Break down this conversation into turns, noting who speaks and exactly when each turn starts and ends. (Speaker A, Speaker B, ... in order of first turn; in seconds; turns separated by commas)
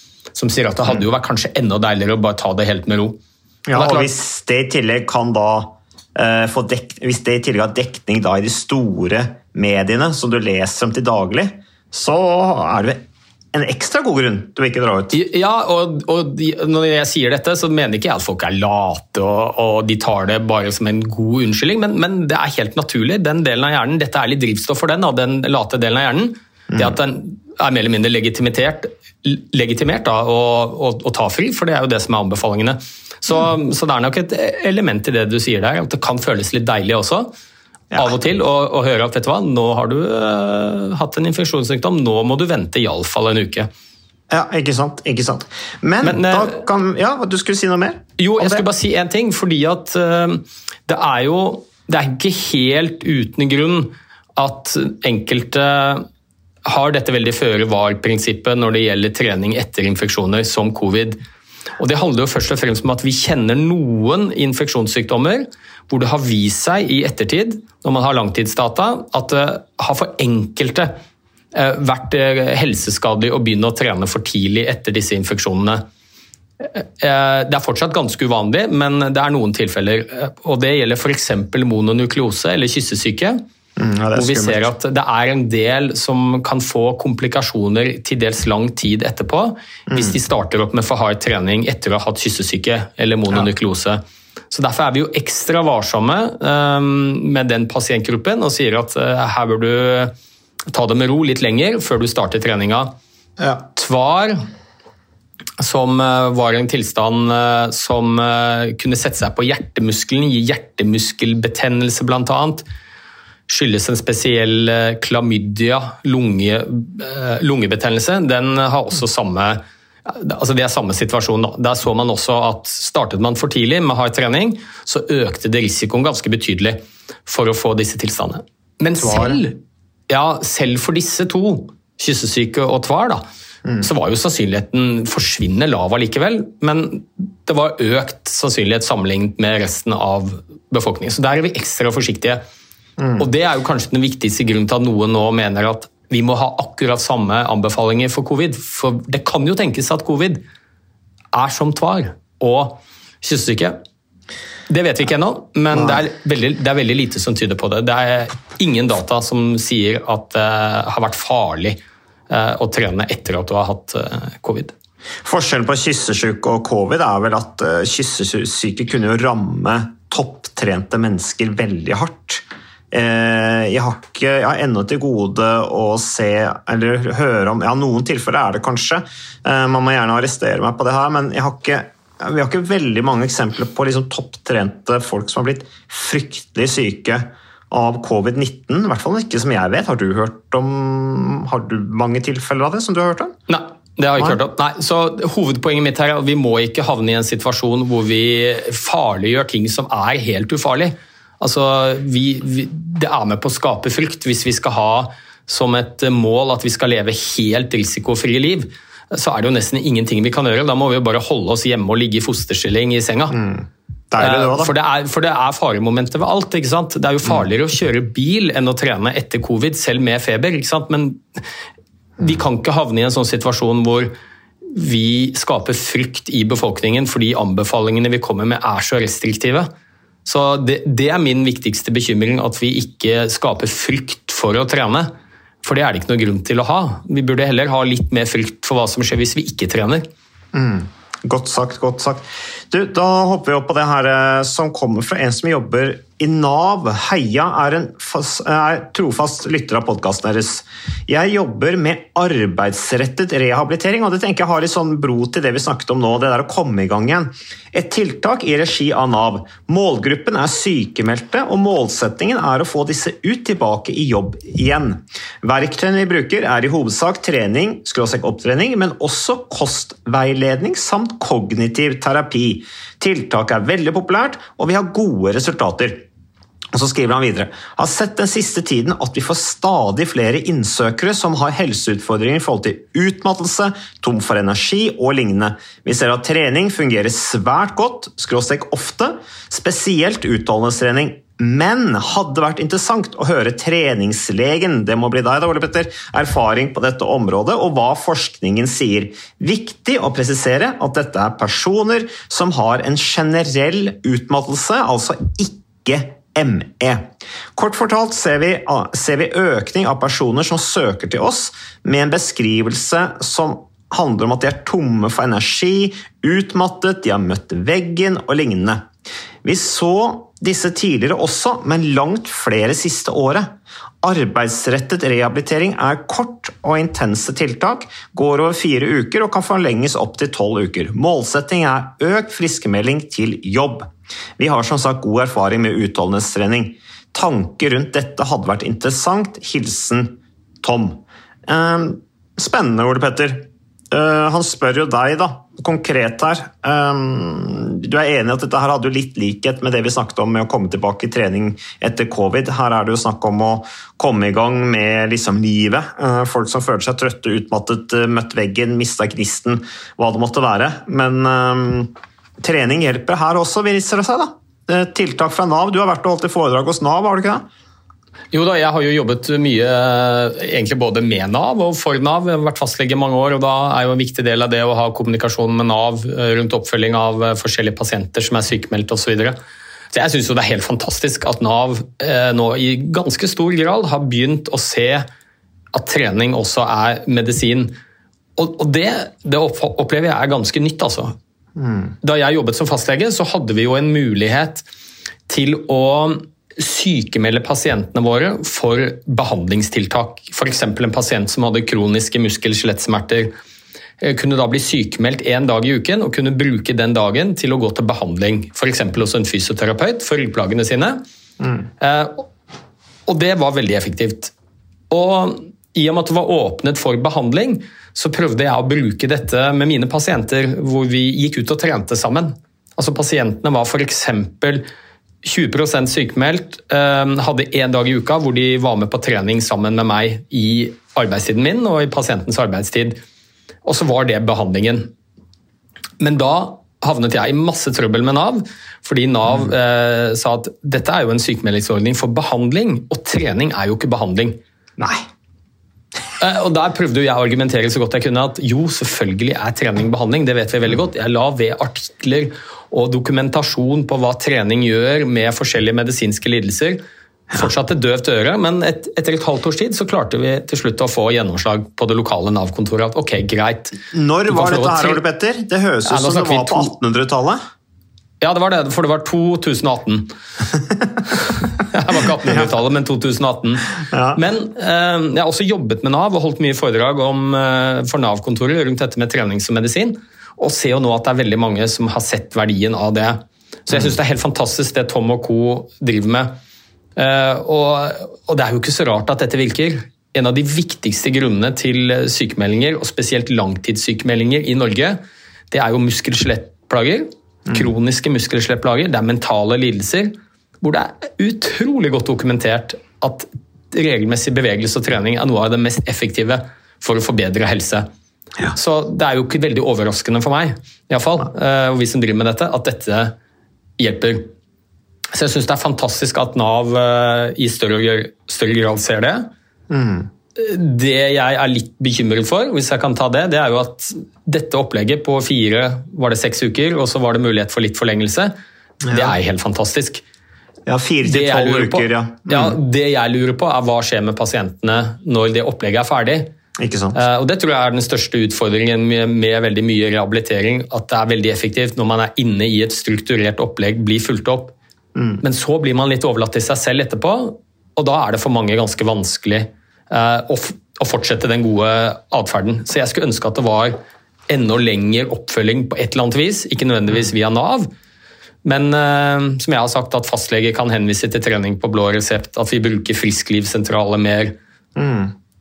Speaker A: 0.3-3.2, Speaker B: 3.7-15.2, Speaker A: 3.7-4.1, Speaker A: 15.1-37.3, Speaker B: 26.7-27.0, Speaker B: 37.9-38.2, Speaker A: 38.0-43.7, Speaker B: 44.3-48.7, Speaker A: 46.0-46.6, Speaker A: 48.2-56.0, Speaker A: 56.7-61.2, Speaker A: 61.8-70.9, Speaker A: 71.5-75.8, Speaker A: 76.6-83.4, Speaker B: 83.8-84.7, Speaker A: 84.1-94.0, Speaker B: 89.9-90.2, Speaker A: 94.5-100.1, Speaker A: 100.7-102.9, Speaker B: 103.4-103.6, Speaker A: 103.8-104.4, Speaker A: 105.6-112.6, Speaker A: 113.5-129.6, Speaker B: 129.0-129.4, Speaker A: 130.1-133.2, Speaker A: 133.8-142.4, Speaker B: 143.0-143.2, Speaker A: 143.2-150.4, Speaker A: 151.3-153.8, Speaker A: 154.7-164.7, Speaker B: 165.2-193.4, Speaker A: 193.5-213.4, Speaker B: 213.3-214.7, Speaker A: 214.2-221.4, Speaker A: 222.2-224.1, Speaker A: 224.7-229.7, Speaker A: 230.2-235.1, Speaker A: 235.6-240.1, Speaker B: 240.5-276.1, Speaker B: 276.7-318.9, Speaker B: 319.4-367.5, Speaker A: 368.3-379.4, Speaker A: 379.9-385.1, Speaker A: 385.7-387.8, Speaker A: 388.4-391.1, Speaker B: 391.6-391.9, Speaker A: 392.0-394.6, Speaker A: 395.3-403.3, Speaker A: 404.0-411.0, Speaker B: 411.4-411.7, Speaker A: 411.8-412.3, Speaker A: 413.1-414.3, Speaker A: 414.9-424.6, Speaker A: 425.2-433.0, Speaker A: 433.6-434.9, Speaker A: 436.0-444.4, Speaker A: 446.2-456.8, Speaker A: 457.3-465.0, Speaker B: 463.9-467.4, Speaker A: 465.9-466.7, Speaker A: 468.2-470.1, Speaker A: 471.2-486.3, Speaker B: 473.9-474.2, Speaker A: 487.0-507.9, Speaker A: 508.5-513.1, Speaker A: 513.8-514.3, Speaker A: 515.1-519.3, Speaker B: 519.7-520.1, Speaker A: 520.4-528.3, Speaker B: 528.8-529.2, Speaker A: 528.9-530.0, Speaker B: 530.7-532.6, Speaker A: 531.0-536.3, Speaker B: 536.6-537.0, Speaker A: 536.9-544.5, Speaker B: 545.0-545.2, Speaker A: 545.2-553.8, Speaker A: 554.3-557.7, Speaker A: 558.4-564.4, Speaker B: 564.8-565.1